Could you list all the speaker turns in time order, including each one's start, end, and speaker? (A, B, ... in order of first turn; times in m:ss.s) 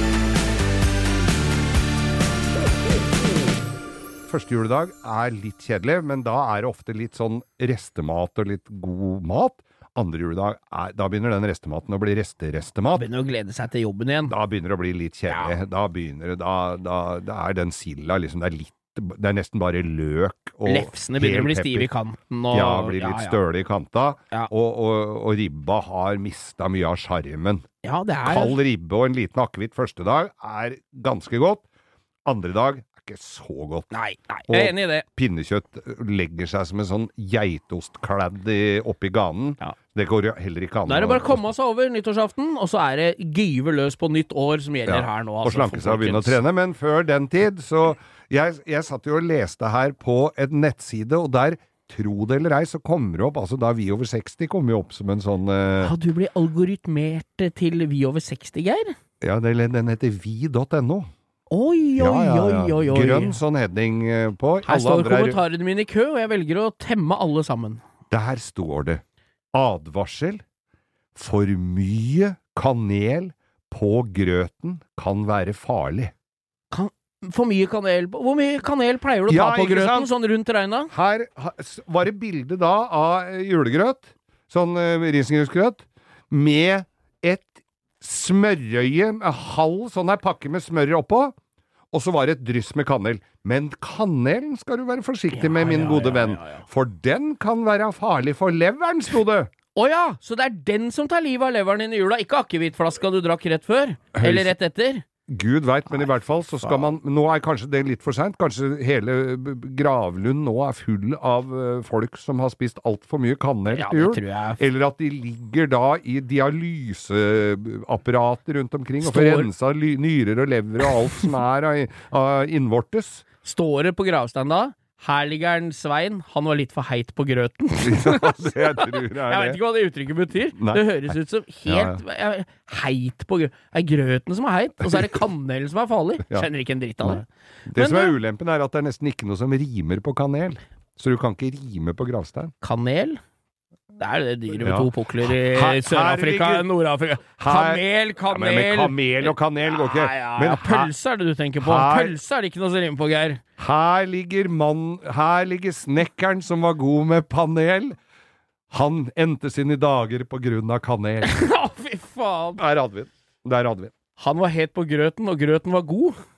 0:04.3-0:13.1 A
0:13.0-0:14.3 B
0:14.3-0:21.9 A
0:20.7-0:23.4 B
0:22.5-0:27.6 A
0:27.8-0:28.6 B
0:28.2-0:31.6 A
0:32.3-0:33.9 A
0:33.9-0:35.0 B
0:34.5-0:41.4 A
0:40.9-0:46.4 B
0:44.9-0:55.9 A
0:55.8-0:59.0 B
0:59.2-1:01.1 A
1:01.5-1:03.4 B
1:02.0-1:05.4 A
1:04.6-1:07.8 B
1:08.1-1:09.0 A
1:09.5-1:10.4 A
1:11.2-1:16.1 A
1:16.7-1:20.9 B
1:19.3-1:20.1 A
1:20.9-1:31.3 A
1:31.9-1:39.5 A
1:35.3-1:36.6 B
1:39.8-1:45.0 B
1:44.2-1:44.5 A
1:45.3-2:03.2 A
1:46.6-1:46.9 B
1:53.7-1:54.6 B
1:59.0-1:59.5 B
2:03.4-2:18.2 B
2:07.8-2:09.6 A
2:10.5-2:11.1 A
2:11.7-2:12.0 A
2:17.0-2:22.5 A
2:22.6-2:23.2 B
2:24.0-2:33.4 B
2:24.6-2:26.7 A
2:27.4-2:30.9 A
2:31.6-2:32.2 A
2:33.6-2:38.0 A
2:38.7-2:41.3 A
2:41.2-2:42.6 B
2:42.6-2:43.9 A
2:44.2-2:46.2 B